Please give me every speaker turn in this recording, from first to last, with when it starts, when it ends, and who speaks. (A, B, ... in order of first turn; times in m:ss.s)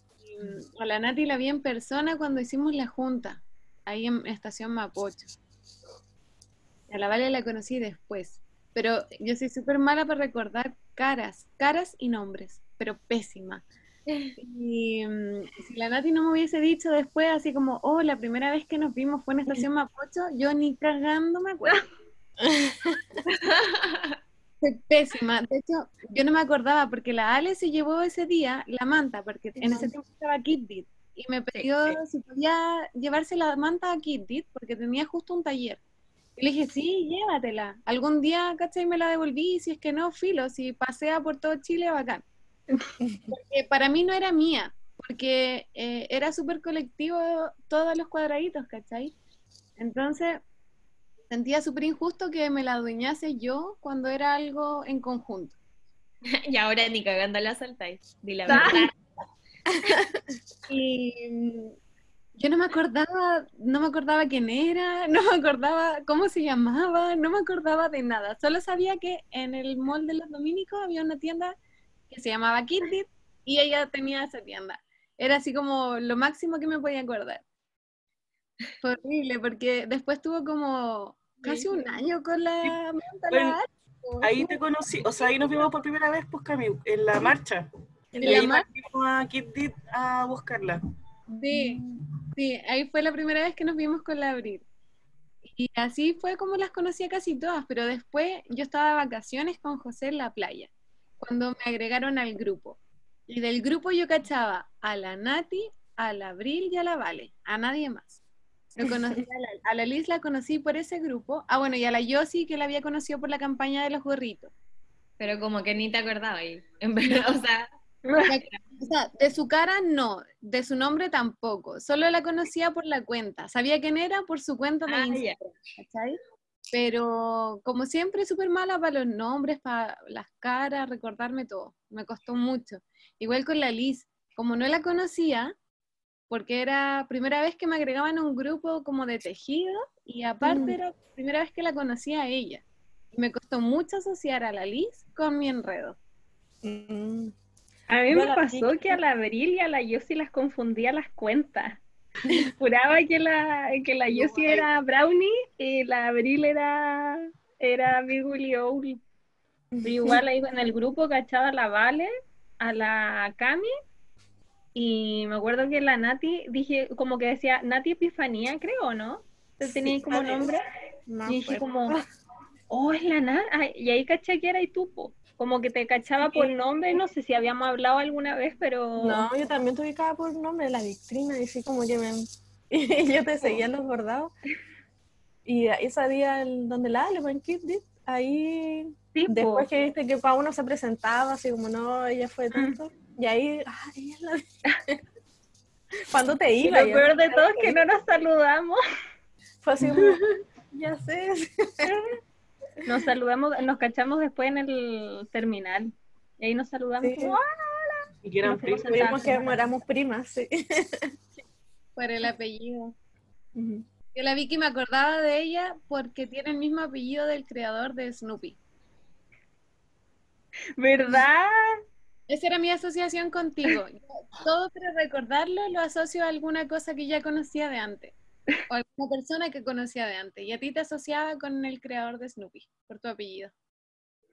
0:00.2-0:05.3 A
0:06.9-0:13.6 A
0:14.1-0:14.4 B
0:14.4-0:21.9 A
0:22.4-0:23.2 C
0:23.3-0:24.2 B
0:24.6-0:35.8 A
0:29.6-0:29.9 C
0:31.6-0:32.0 B
0:36.4-0:42.2 A
0:43.3-0:49.1 A
0:49.8-0:50.4 A
0:51.3-0:55.6 A
0:56.3-0:59.0 B
0:58.5-0:58.8 A
0:58.5-0:58.8 D
0:59.9-1:00.1 B
1:00.7-1:01.8 A
1:02.4-1:11.6 A
1:12.1-1:17.4 A
1:18.8-1:24.6 A
1:23.3-1:23.6 E
1:24.2-1:27.7 E
1:28.1-1:28.5 C
1:28.2-1:28.7 A
1:28.2-1:30.8 E
1:31.3-1:31.8 A
1:31.5-1:31.8 C
1:32.4-1:34.6 A
1:35.5-1:42.8 A
1:43.3-1:48.2 A
1:48.8-1:54.5 A
1:48.8-1:49.2 C
1:55.2-1:57.7 B
1:58.0-1:58.3 D
1:58.2-2:06.2 A
2:04.9-2:05.4 B
2:06.7-2:15.6 A
2:16.3-2:26.0 A
2:20.4-2:20.8 C
2:26.6-2:27.3 C
2:27.9-2:39.0 D
2:28.1-2:29.0 C
2:39.8-2:40.2 C
2:39.8-2:42.1 D
2:42.6-2:43.7 D
2:44.8-2:50.6 D
2:49.8-2:50.5 C
2:51.1-2:52.0 C
2:51.3-2:52.0 D
2:52.7-2:59.3 D
2:59.0-3:04.3 C
3:05.4-3:15.0 C
3:09.2-3:09.7 D
3:16.1-3:17.8 C
3:16.6-3:18.8 D
3:19.6-3:21.9 C
3:20.0-3:20.2 E
3:22.8-3:29.6 D
3:27.0-3:27.4 C
3:28.2-3:29.4 E
3:28.9-3:31.1 C
3:32.0-3:33.0 A
3:33.6-3:33.8 C
3:34.1-3:38.6 A
3:40.8-3:41.7 D
3:42.3-3:48.2 A
3:48.7-3:53.5 A